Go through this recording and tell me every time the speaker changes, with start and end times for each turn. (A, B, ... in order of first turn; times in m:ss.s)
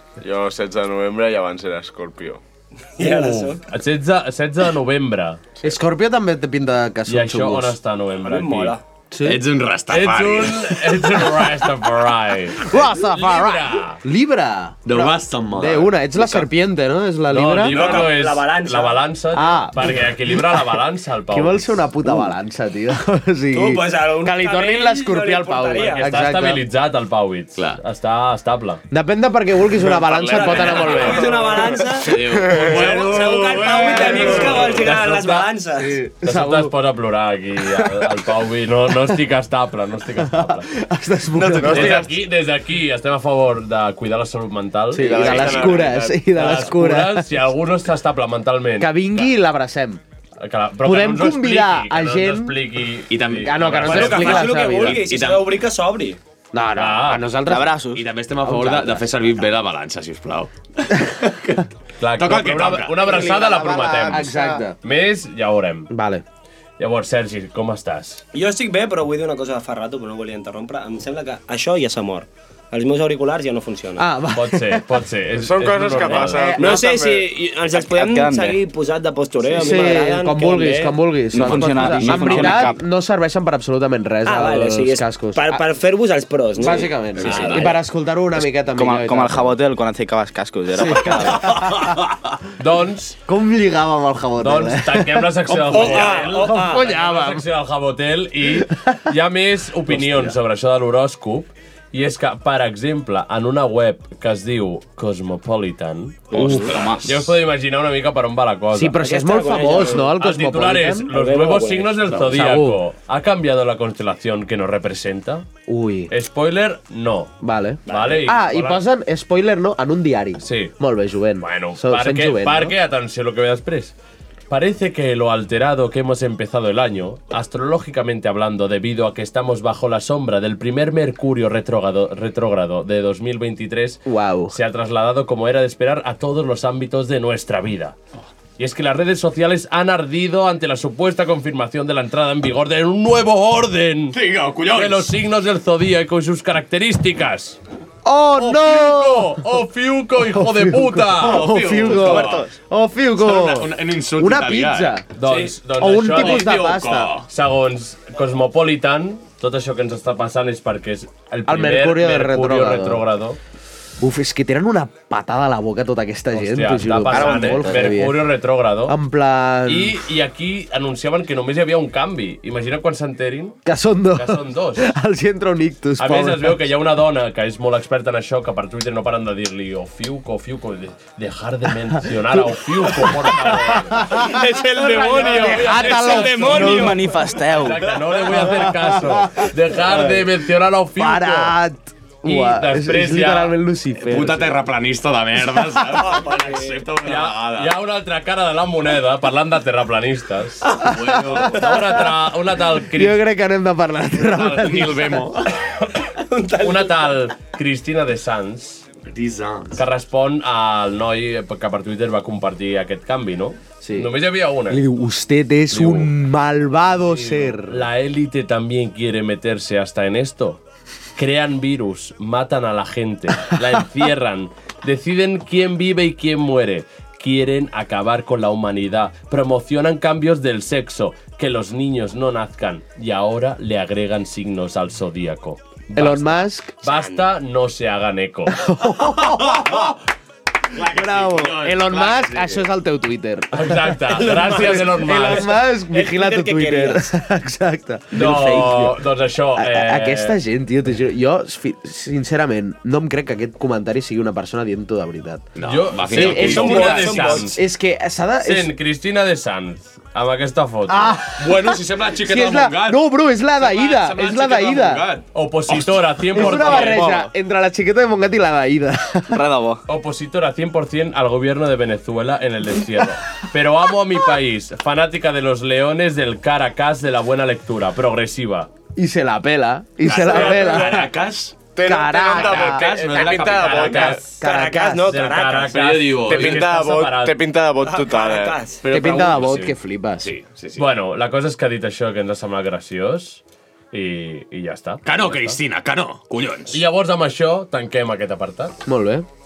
0:00.2-0:02.4 A
0:03.0-0:03.6 B
0:03.0-0:05.4 C
0:05.6-0:07.8 D
0:07.1-0:08.8 C
0:08.2-0:08.8 B
0:09.1-0:09.4 D
0:09.2-0:11.2 E
0:09.9-0:14.0 C
0:12.6-0:18.0 D
0:14.8-0:16.4 E
0:17.3-0:21.8 C
0:17.6-0:19.0 B
0:19.3-0:20.4 D
0:21.3-0:26.7 D
0:23.5-0:26.0 B
0:25.8-0:28.8 C
0:28.9-0:31.6 D
0:30.3-0:36.0 B
0:30.3-0:31.3 C
0:31.0-0:31.5 A
0:31.8-0:34.8 E
0:32.4-0:33.1 A
0:34.1-0:35.5 C
0:35.8-0:36.7 D
0:36.2-0:40.7 C
0:37.7-0:38.1 D
0:40.2-0:42.1 D
0:41.4-0:42.2 A
0:41.6-0:49.3 C
0:44.9-0:47.4 D
0:44.9-0:46.5 A
0:48.8-0:50.0 D
0:50.4-0:54.4 C
0:50.8-0:52.6 D
0:53.1-0:55.6 E
0:53.3-0:55.1 D
0:53.9-0:56.2 B
0:56.5-0:57.8 D
0:56.8-0:57.3 C
0:57.4-0:58.0 F
0:57.9-1:03.3 E
0:58.4-0:59.1 D
1:02.0-1:05.9 C
1:03.2-1:04.8 D
1:03.9-1:04.3 E
1:05.9-1:06.2 D
1:06.8-1:08.2 C
1:08.3-1:14.0 B
1:14.0-1:15.0 D
1:14.3-1:16.5 C
1:15.3-1:17.2 A
1:16.2-1:16.8 D
1:16.5-1:21.0 B
1:17.7-1:18.6 F
1:19.6-1:25.6 D
1:21.3-1:22.8 F
1:21.4-1:22.7 E
1:24.2-1:27.6 B
1:26.6-1:29.6 D
1:27.1-1:27.8 E
1:27.2-1:27.6 F
1:28.4-1:31.5 F
1:30.8-1:31.9 D
1:31.4-1:32.0 E
1:32.6-1:33.2 C
1:33.3-1:37.4 D
1:34.4-1:49.0 C
1:35.5-1:36.3 E
1:35.7-1:36.8 B
1:38.5-1:38.9 D
1:46.3-1:47.3 E
1:46.3-1:47.0 F
1:46.4-1:46.8 D
1:48.7-1:51.1 D
1:49.0-1:50.1 B
1:50.0-1:55.5 C
1:51.1-1:52.3 B
1:52.3-1:52.8 D
1:55.7-1:56.1 D
1:56.1-1:57.3 C
1:57.4-2:02.8 D
1:57.9-1:58.3 B
1:57.9-1:58.8 C
2:00.4-2:00.8 C
2:01.4-2:03.9 C
2:04.5-2:18.0 C
2:14.0-2:14.5 D
2:18.6-2:27.6 C
2:24.1-2:25.1 E
2:28.0-2:29.5 D
2:28.4-2:31.5 C
2:30.2-2:35.0 D
2:31.2-2:32.5 E
2:32.0-2:32.5 F
2:33.2-2:35.5 E
2:35.2-2:36.6 C
2:35.8-2:37.1 D
2:36.1-2:37.3 E
2:37.2-2:43.4 C
2:41.5-2:43.0 D
2:44.0-2:48.3 D
2:46.3-2:49.0 C
2:47.5-2:47.9 E
2:48.9-2:50.0 D
2:49.6-2:53.6 C
2:53.6-2:56.7 D
2:54.1-2:54.9 C
2:56.0-3:06.9 C
3:02.9-3:04.3 D
3:04.2-3:07.1 B
3:05.1-3:06.9 D
3:06.4-3:07.9 F
3:07.6-3:11.5 C
3:08.3-3:10.2 D
3:11.0-3:14.6 D
3:12.2-3:13.6 C
3:14.0-3:17.7 E
3:15.6-3:16.0 D
3:16.0-3:16.9 B
3:17.0-3:20.7 C
3:20.7-3:21.8 E
3:20.8-3:22.1 D
3:21.4-3:23.2 C
3:22.8-3:25.3 D
3:24.4-3:25.5 E
3:25.8-3:27.3 B
3:26.6-3:28.8 C
3:29.1-3:29.8 E
3:29.8-3:34.8 C
3:33.8-3:34.1 D
3:34.6-3:37.8 D
3:35.7-3:36.1 C
3:37.1-3:40.6 C
3:41.2-3:58.6 C
3:55.9-3:56.7 D
3:56.9-3:57.3 B
3:58.5-3:59.9 D
3:59.5-3:59.9 E
4:00.7-4:02.7 E
4:00.8-4:08.9 D
4:03.5-4:05.5 C
4:04.1-4:07.0 B
4:08.1-4:10.4 C
4:09.6-4:18.7 D
4:15.6-4:17.2 E
4:15.6-4:17.6 C
4:16.1-4:17.6 B
4:18.4-4:21.2 C
4:20.9-4:25.1 D
4:21.3-4:27.2 E
4:25.3-4:27.2 C
4:26.4-4:29.4 D
4:29.3-4:29.8 F
4:29.9-4:38.7 C
4:39.0-4:41.1 D
4:40.0-4:41.6 E
4:40.3-4:40.6 C
4:41.8-4:44.2 A
4:41.8-4:43.2 D
4:42.3-4:44.2 E
4:43.3-4:44.4 C
4:44.1-4:45.2 D
4:44.4-4:46.1 B
4:45.1-4:47.4 C
4:45.7-4:46.7 E
4:46.3-4:48.6 A
4:47.8-4:48.8 B
4:48.8-4:49.5 E
4:48.9-4:50.3 D
4:49.2-4:49.7 C
4:50.2-4:50.9 E
4:50.8-4:55.6 C
4:55.0-4:56.8 E
4:56.7-4:58.8 C
4:58.8-4:59.3 D